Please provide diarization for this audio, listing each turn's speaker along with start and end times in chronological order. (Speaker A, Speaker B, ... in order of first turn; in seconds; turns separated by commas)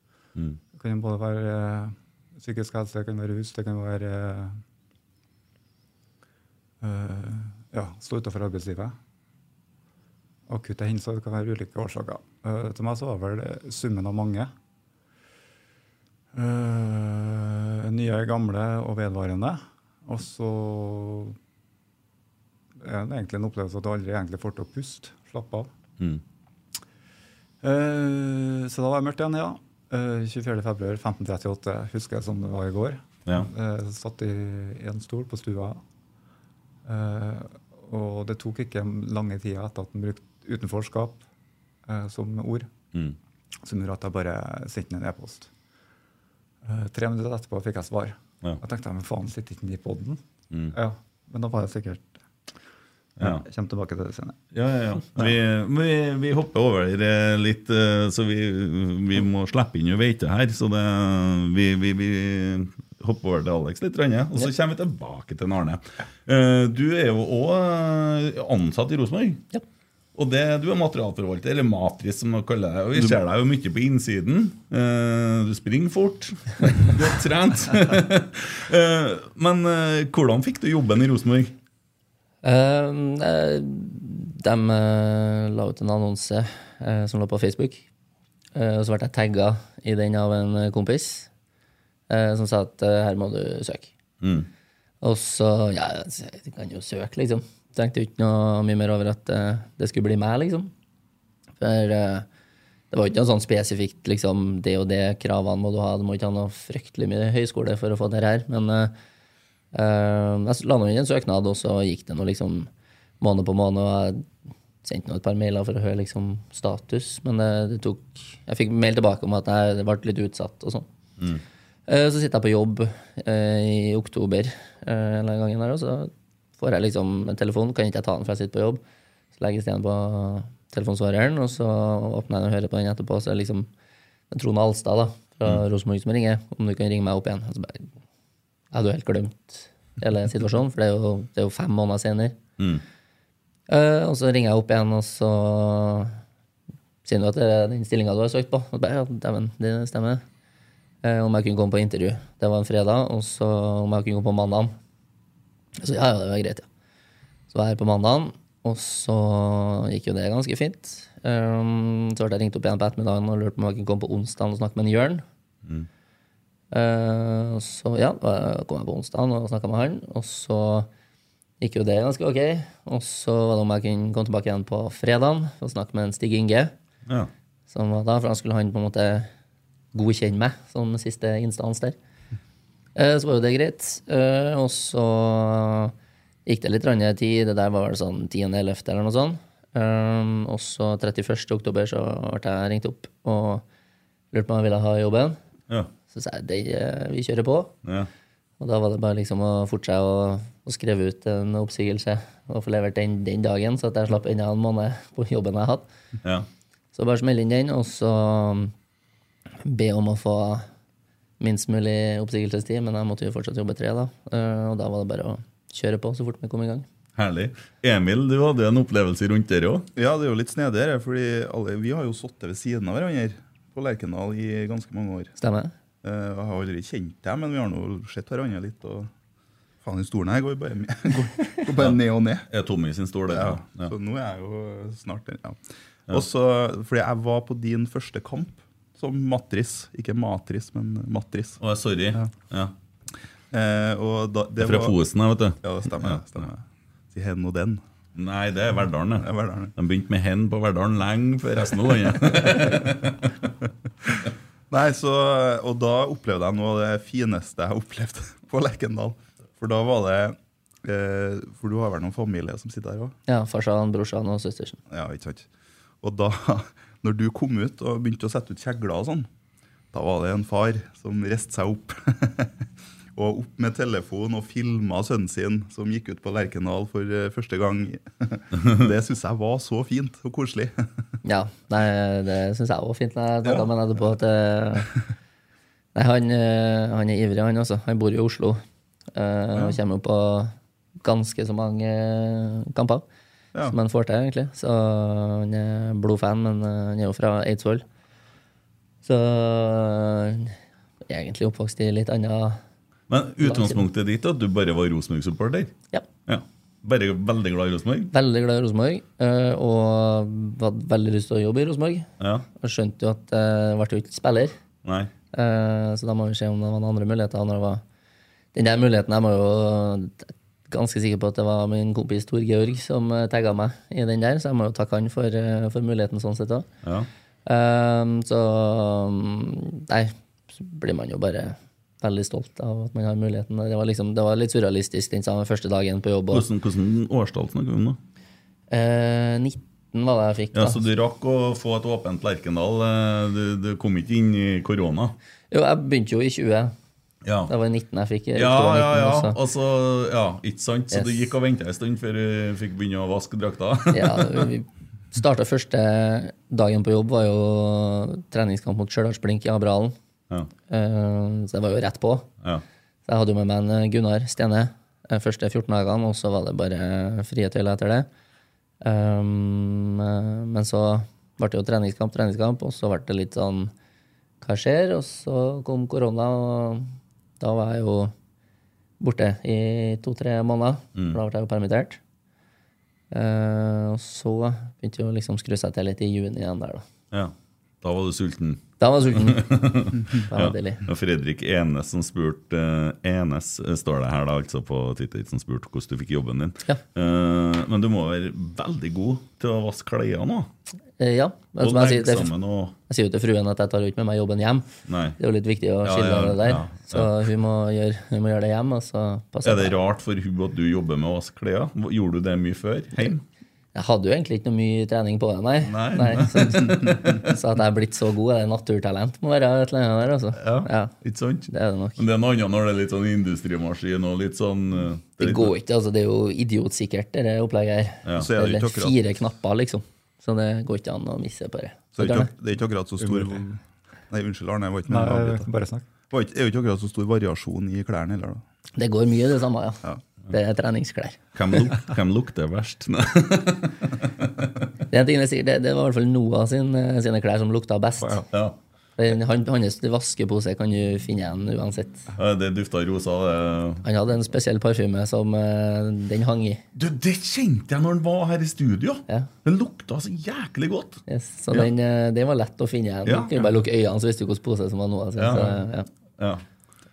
Speaker A: 0.7-4.6, Speaker A: 6.8-9.0, Speaker A: 10.5-14.5, Speaker A: 16.3-21.4, Speaker A: 22.8-25.7, Speaker A: 27.6-35.8, Speaker A: 36.9-41.2, Speaker A: 41.9-42.7, Speaker A: 43.6-45.5, Speaker A: 46.6-50.2, Speaker A: 50.7-52.2, Speaker B: 53.2-53.4, Speaker A: 53.2-54.4, Speaker B: 54.5-69.5, Speaker B: 70.2-81.5, Speaker C: 82.4-87.8, Speaker C: 88.5-91.3, Speaker C: 92.1-93.9, Speaker B: 94.2-94.5, Speaker C: 95.0-100.7, Speaker C: 101.6-102.3, Speaker C: 102.9-108.9, Speaker C: 109.7-112.7, Speaker C: 113.2-114.3, Speaker C: 114.8-120.9, Speaker C: 121.9-128.8, Speaker C: 129.4-133.7, Speaker C: 134.3-137.9, Speaker C: 138.7-142.4, Speaker C: 143.7-146.2, Speaker C: 147.1-150.2, Speaker C: 151.0-154.7, Speaker C: 155.8-156.7, Speaker C: 157.5-165.2, Speaker C: 166.7-170.9, Speaker C: 171.6-176.7, Speaker C: 177.7-179.3, Speaker C: 179.9-182.0, Speaker C: 182.9-185.9, Speaker C: 186.5-193.6, Speaker C: 194.3-195.4, Speaker C: 196.1-197.8, Speaker C: 198.6-205.9, Speaker C: 206.9-208.7, Speaker C: 209.6-210.7, Speaker C: 211.4-216.9, Speaker B: 217.2-219.9, Speaker D: 220.0-225.3, Speaker C: 225.4-225.7, Speaker D: 226.0-229.1, Speaker D: 229.8-232.5, Speaker B: 232.5-233.9, Speaker D: 233.3-241.6, Speaker B: 241.6-242.7, Speaker D: 243.5-245.0, Speaker B: 244.6-246.4, Speaker D: 245.6-247.8, Speaker B: 248.2-253.3, Speaker D: 249.2-249.7, Speaker D: 254.7-263.1, Speaker C: 263.3-264.8, Speaker D: 264.9-265.5, Speaker D: 266.0-269.3, Speaker D: 269.9-272.6, Speaker D: 273.1-280.9, Speaker C: 281.2-284.9, Speaker C: 285.9-288.6, Speaker C: 289.1-293.1, Speaker C: 293.7-297.8, Speaker C: 299.0-302.6, Speaker B: 303.1-305.7, Speaker C: 303.4-303.9, Speaker B: 306.3-308.1, Speaker C: 308.1-314.6, Speaker B: 312.2-312.5, Speaker B: 314.9-315.1, Speaker C: 315.3-317.8, Speaker C: 318.5-326.7, Speaker C: 327.5-336.4, Speaker B: 336.3-338.0, Speaker C: 338.7-340.9, Speaker B: 340.6-345.1, Speaker C: 345.5-346.7, Speaker B: 347.2-347.5, Speaker C: 347.5-349.4, Speaker B: 348.4-354.5, Speaker C: 350.9-351.3, Speaker C: 353.9-360.0, Speaker C: 360.7-362.3, Speaker C: 363.1-368.1, Speaker C: 368.8-373.7, Speaker C: 374.4-378.1, Speaker C: 379.0-382.0, Speaker C: 383.1-386.9, Speaker B: 387.1-400.5, Speaker C: 388.8-389.5, Speaker C: 390.2-390.8, Speaker C: 401.0-402.3, Speaker B: 401.6-402.8, Speaker C: 402.9-409.8, Speaker B: 404.9-405.2, Speaker B: 405.8-407.1, Speaker B: 409.4-413.2, Speaker C: 413.7-420.9, Speaker B: 415.7-417.3, Speaker B: 420.4-425.5, Speaker C: 421.5-422.0, Speaker C: 425.2-432.3, Speaker D: 428.2-429.0, Speaker D: 432.0-435.5, Speaker A: 433.0-433.4, Speaker A: 434.9-435.9, Speaker D: 436.1-438.4, Speaker C: 438.8-441.6, Speaker B: 441.3-444.0, Speaker C: 444.9-448.3, Speaker B: 448.3-448.6, Speaker C: 449.0-452.1, Speaker B: 452.2-453.8, Speaker C: 453.8-456.6, Speaker B: 456.8-461.7, Speaker C: 461.1-465.9, Speaker B: 463.1-463.5, Speaker B: 465.2-465.6, Speaker B: 466.2-466.4